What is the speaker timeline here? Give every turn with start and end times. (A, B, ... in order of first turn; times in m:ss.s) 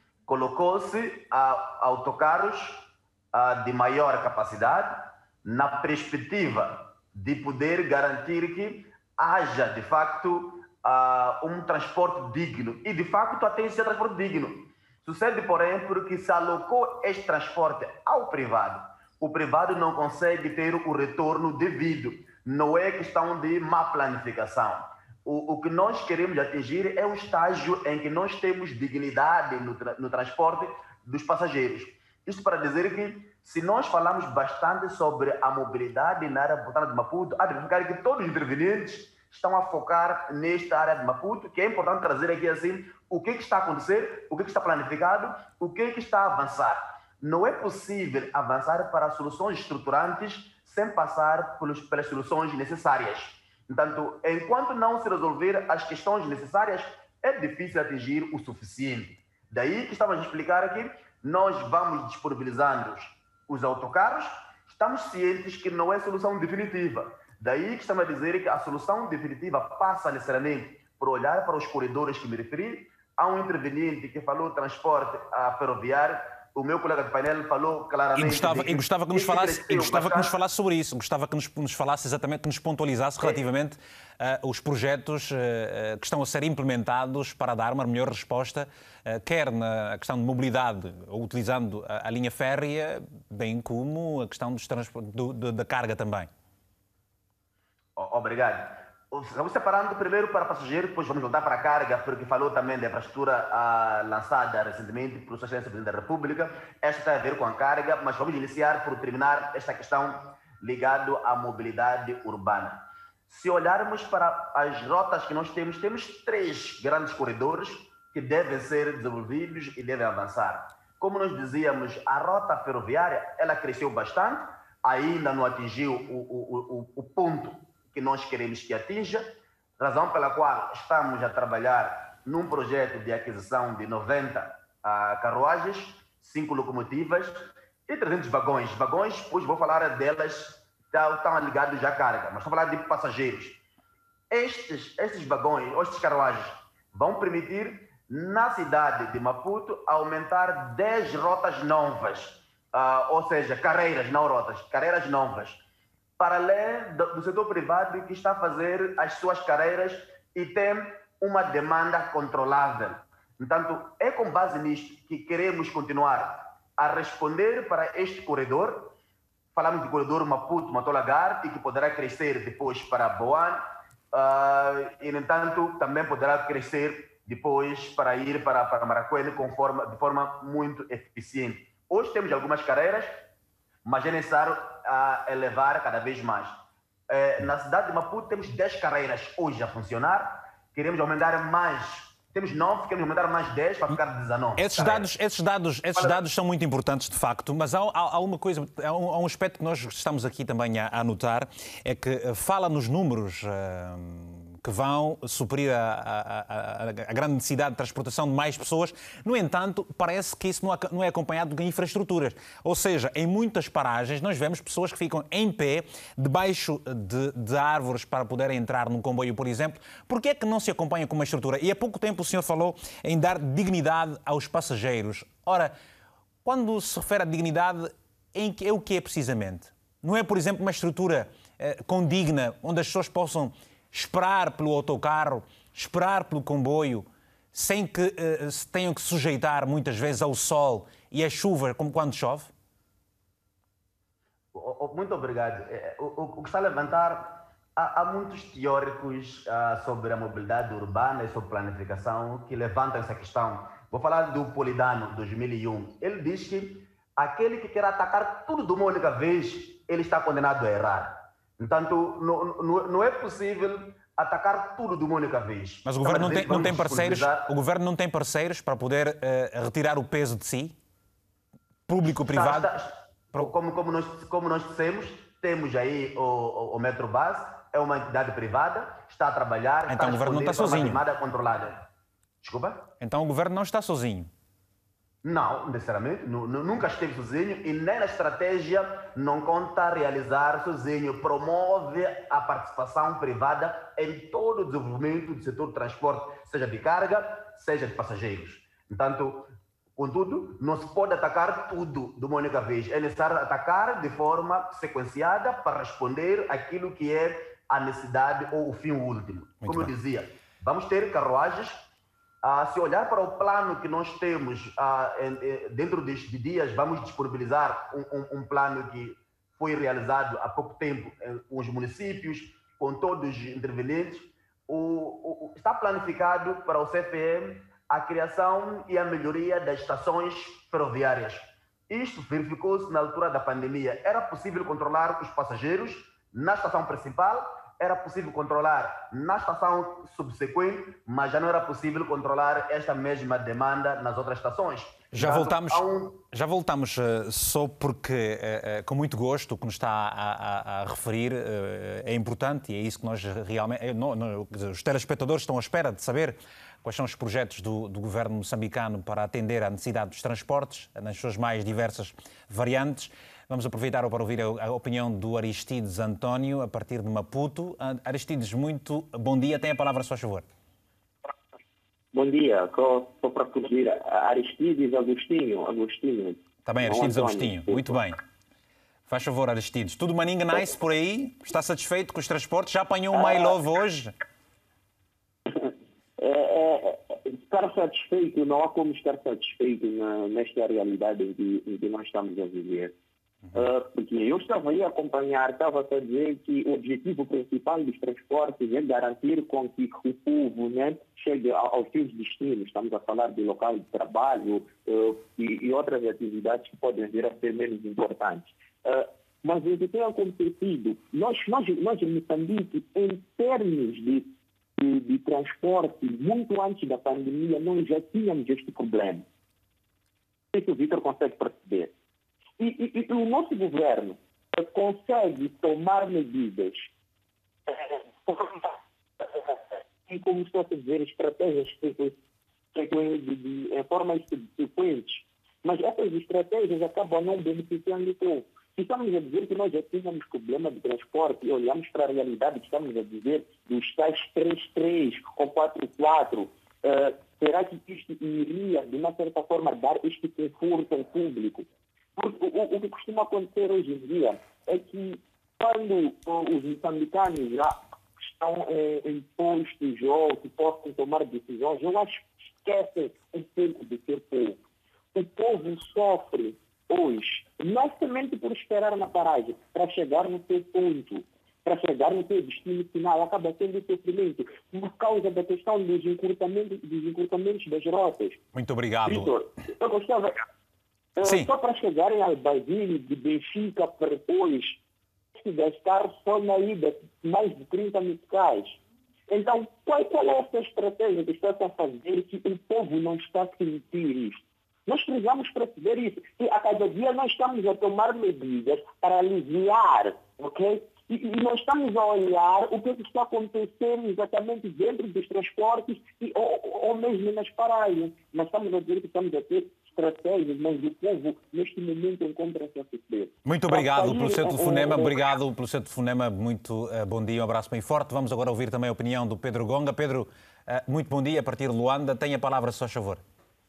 0:00.3-1:20.3 A
1:18.1-1:36.3 B
1:38.0-2:23.6 A
2:24.3-2:35.6 A
2:36.2-2:48.9 A
2:49.5-3:03.1 A
3:03.8-3:15.0 A
3:14.6-3:45.7 B
3:46.4-4:02.5 B
4:04.5-4:27.4 A
4:25.8-4:30.7 B
4:31.9-4:32.7 B
4:32.3-4:41.8 A
4:39.9-4:41.0 B
4:42.4-4:42.9 A
4:43.0-4:44.3 B
4:45.2-5:11.8 A
5:09.6-5:09.9 B
5:12.4-5:46.1 A
5:45.1-6:10.4 B
6:12.1-6:18.0 C
6:16.6-6:18.2 B
6:19.1-6:24.1 B
6:23.1-6:23.6 C
6:25.5-6:32.9 C
6:33.5-6:59.2 C
7:00.5-7:01.9 C
7:02.6-7:06.9 C
7:07.7-7:12.2 C
7:12.7-7:44.6 C
7:45.1-7:58.4 C
7:58.5-7:59.3 B
7:59.0-8:00.4 C
8:01.2-8:04.8 C
8:01.2-8:01.5 B
8:05.3-8:35.3 C
8:33.4-8:43.2 B